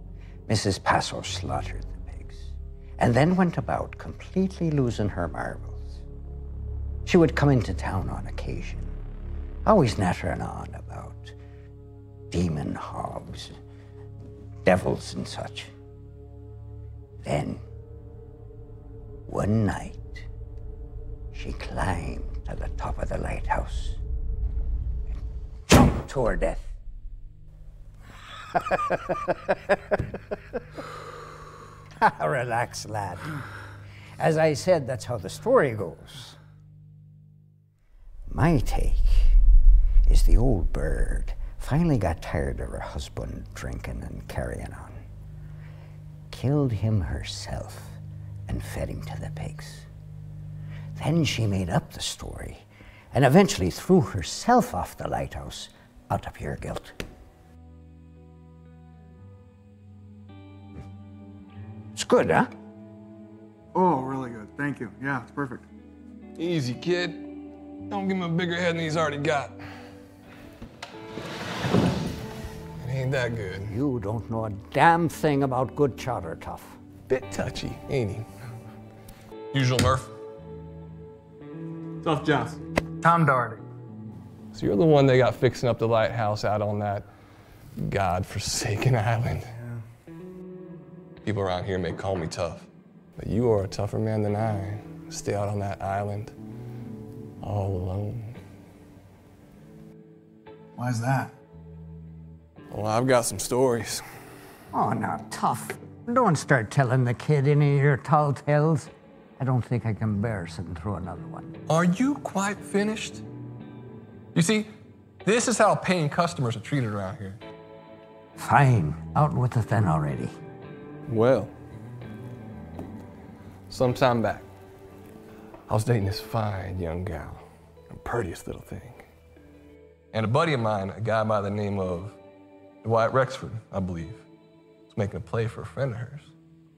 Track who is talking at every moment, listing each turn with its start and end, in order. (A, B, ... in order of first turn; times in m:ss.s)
0:00.5-0:06.0 A
0:07.0-0:08.9 A
0:09.6-0:11.3 A
0:12.3-0:13.6 A
0:14.6-0:15.7 A
0:17.2-0:17.6 A
0:19.3-0:20.3 A
0:21.3-0:24.0 A
0:25.7-0:26.7 A
0:28.5-0:29.3 A
0:32.0-0:33.3 A
0:34.2-0:36.4 A
0:38.3-0:39.4 A
0:40.1-0:45.0 A
0:46.3-0:49.9 A
0:51.0-0:57.0 A
1:02.0-1:02.5 A
1:03.7-1:05.7 B
1:06.4-1:07.2 C
1:07.9-1:09.6 C
1:12.8-1:13.8 C
1:13.7-1:16.8 A
1:17.1-1:18.3 C
1:19.5-1:20.1 C
1:22.0-1:22.6 C
1:23.0-1:23.6 B
1:24.5-1:27.1 C
1:27.8-1:29.5 C
1:31.2-1:36.3 C
1:37.4-1:38.4 C
1:40.8-1:41.3 B
1:42.7-1:44.0 C
1:44.7-1:51.5 A
1:51.7-1:53.2 C
1:54.3-1:54.7 C
1:55.2-1:57.4 C
1:58.4-2:00.4 A
2:01.1-2:01.5 C
2:03.7-2:04.5 C
2:05.7-2:09.0 C
2:10.1-2:12.2 C
2:12.8-2:14.2 C
2:14.9-2:16.3 C